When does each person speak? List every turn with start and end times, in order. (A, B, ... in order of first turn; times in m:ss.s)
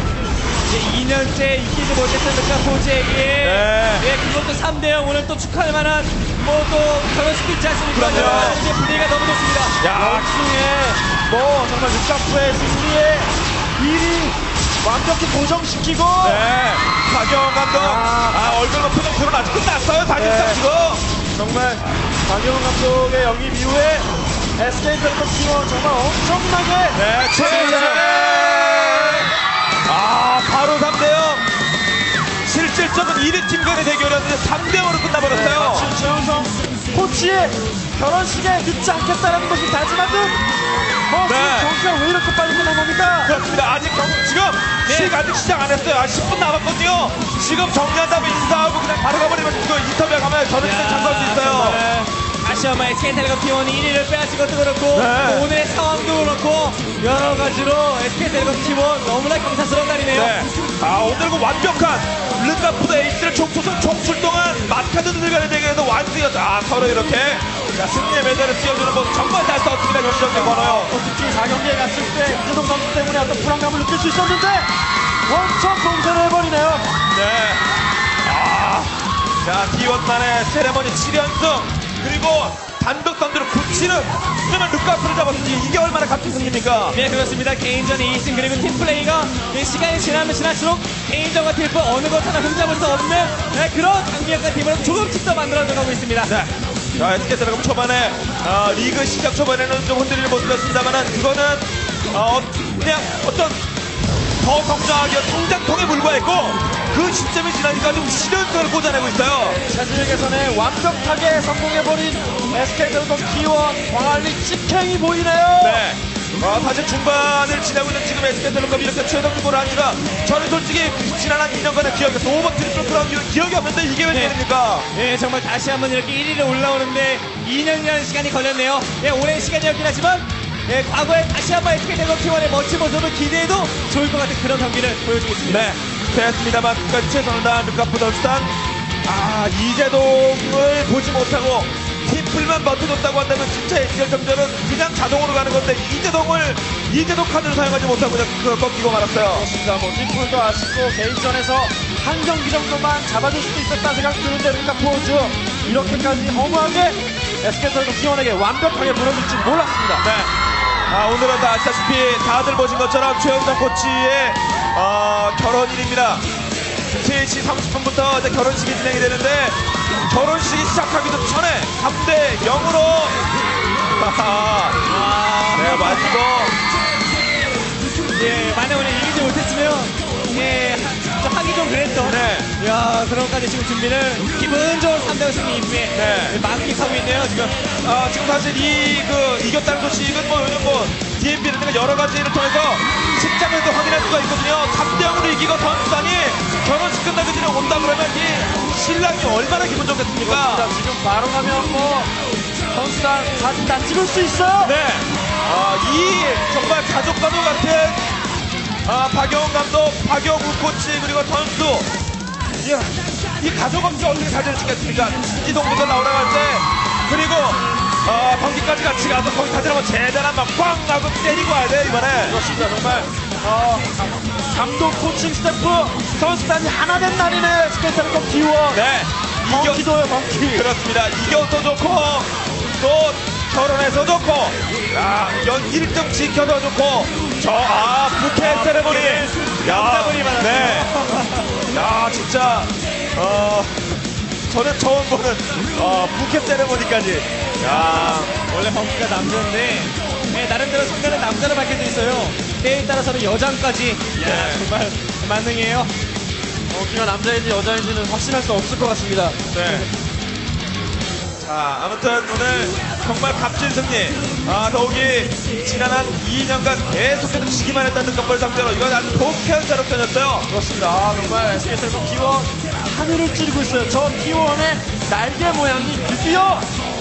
0:00.7-0:09.8 A
0:03.4-0:04.1 B
0:07.9-0:08.6 B
0:08.0-0:08.6 C
0:09.8-0:10.3 B
0:09.9-0:16.4 C
0:16.2-0:21.0 B
0:17.7-0:18.6 C
0:20.1-0:20.6 C
0:21.3-0:28.0 C
0:26.9-0:29.3 B
0:29.8-0:31.4 B
0:32.4-0:35.9 B
0:35.3-0:40.4 C
0:41.1-0:43.3 C
0:41.2-0:41.7 B
0:43.2-0:51.8 B
0:44.8-0:45.1 A
0:50.6-1:00.4 A
0:54.9-0:55.5 B
1:00.1-1:10.9 B
1:10.3-1:14.7 C
1:15.3-1:16.9 C
1:17.1-1:17.6 B
1:18.2-1:27.0 B
1:26.9-1:36.3 A
1:36.2-1:43.6 B
1:44.4-1:49.6 B
1:49.6-1:55.8 C
1:55.6-2:04.9 B
2:04.1-2:04.4 A
2:04.9-2:15.8 A
2:15.4-2:29.5 B
2:29.3-2:40.1 C
2:40.0-2:40.3 B
2:40.9-2:46.3 B
2:46.9-2:53.2 B
2:53.9-2:54.8 B
2:54.8-2:56.2 A
2:55.5-2:56.6 B
2:58.1-3:07.6 A
3:02.0-3:02.5 B
3:05.9-3:06.4 B
3:07.8-3:20.7 B
3:20.2-3:22.1 C
3:22.7-3:24.8 C
3:24.6-3:28.0 B
3:28.8-3:31.9 B
3:32.6-3:42.4 B
3:42.2-3:48.8 C
3:48.7-3:49.9 B
3:49.4-3:50.7 C
3:50.5-4:00.9 B
3:58.3-4:01.5 A
4:01.7-4:08.3 B
4:07.6-4:15.9 A
4:14.2-4:14.6 B
4:16.7-4:19.5 C
4:19.5-4:19.9 B
4:21.4-4:30.5 B
4:30.5-4:36.7 C